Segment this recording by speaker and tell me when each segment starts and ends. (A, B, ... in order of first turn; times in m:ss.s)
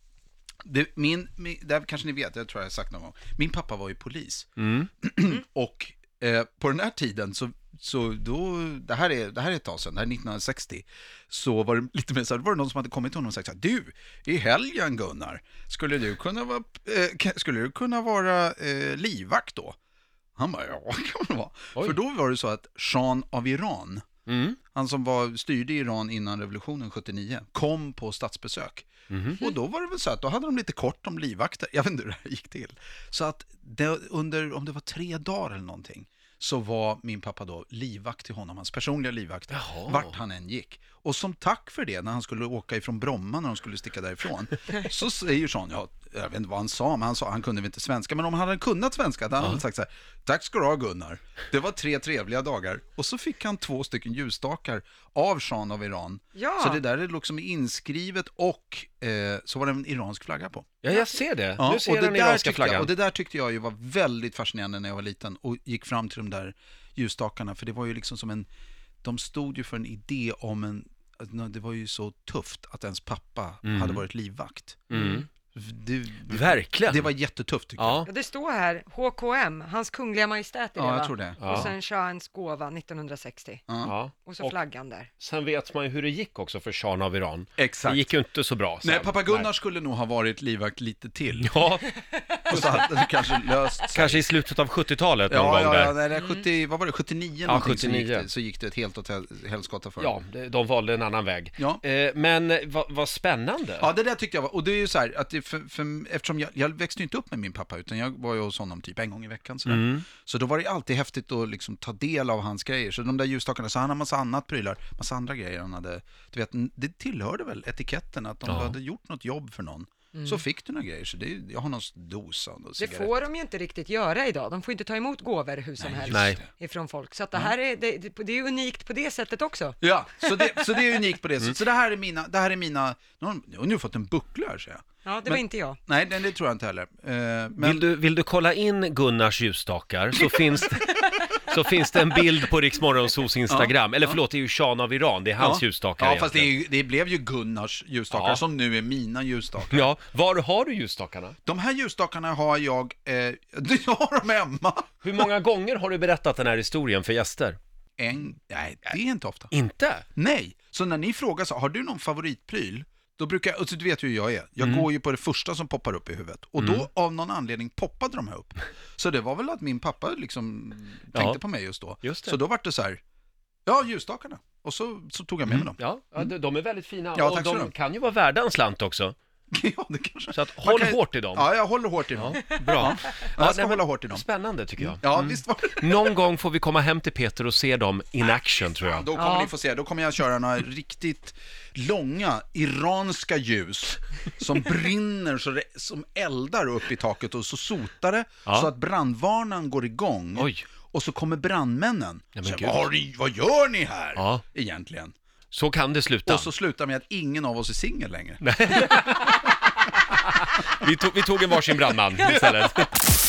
0:00.6-0:04.5 A
0:04.6-0:04.9 B
0:05.0-0:19.8 A
0:20.4-0:24.0 A
0:24.3-0:24.6 B
0:24.7-0:28.9 A
0:29.1-0:29.4 B
0:29.4-1:00.8 A
0:39.5-0:40.1 B
0:56.4-0:56.8 C
1:00.8-1:02.9 B
1:01.6-1:08.5 A
1:09.0-1:14.9 A
1:13.6-1:14.0 B
1:14.9-1:15.3 B
1:15.0-1:15.2 C
1:15.5-1:18.0 A
1:16.3-1:17.1 B
1:17.8-1:18.1 B
1:18.1-1:23.6 C
1:20.8-1:21.7 A
1:21.4-1:21.7 B
1:23.7-1:23.9 A
1:23.8-1:24.6 B
1:24.2-1:25.1 C
1:25.2-1:29.5 B
1:27.6-1:28.1 A
1:28.8-1:31.5 A
1:31.4-1:32.9 B
1:32.5-1:34.2 A
1:33.9-1:36.0 B
1:35.3-1:40.2 A
1:36.2-1:36.4 C
1:37.5-1:38.3 B
1:40.0-1:43.9 B
1:43.8-2:03.1 A
1:49.7-1:50.0 B
1:58.4-1:58.8 B
2:00.1-2:00.4 C
2:02.8-2:10.7 C
2:05.8-2:06.5 A
2:06.1-2:06.4 B
2:09.8-2:17.8 A
2:15.0-2:15.8 C
2:17.6-2:26.5 B
2:20.2-2:20.6 A
2:23.5-2:24.2 A
2:25.4-2:29.9 A
2:28.1-2:28.4 B
2:29.7-2:31.4 B
2:31.4-2:35.3 A
2:35.0-2:37.6 B
2:38.0-2:39.5 A
2:39.5-2:40.0 B
2:40.2-2:53.0 A
2:44.6-2:44.9 B
2:46.6-2:46.9 B
2:51.1-2:51.4 B
2:52.0-2:52.4 B
2:53.7-2:56.3 A
2:55.5-2:59.2 B
2:57.1-2:57.7 A
2:59.5-3:04.2 A
3:00.3-3:01.5 B
3:02.2-3:09.1 B
3:04.8-3:06.2 A
3:08.9-3:25.1 A
3:09.2-3:09.5 C
3:18.4-3:18.7 B
3:20.4-3:20.7 B
3:22.4-3:22.8 B
3:24.2-3:24.4 B
3:25.5-3:26.5 B
3:26.3-3:29.4 A
3:28.4-3:29.6 B
3:30.1-3:33.0 B
3:32.3-3:32.6 A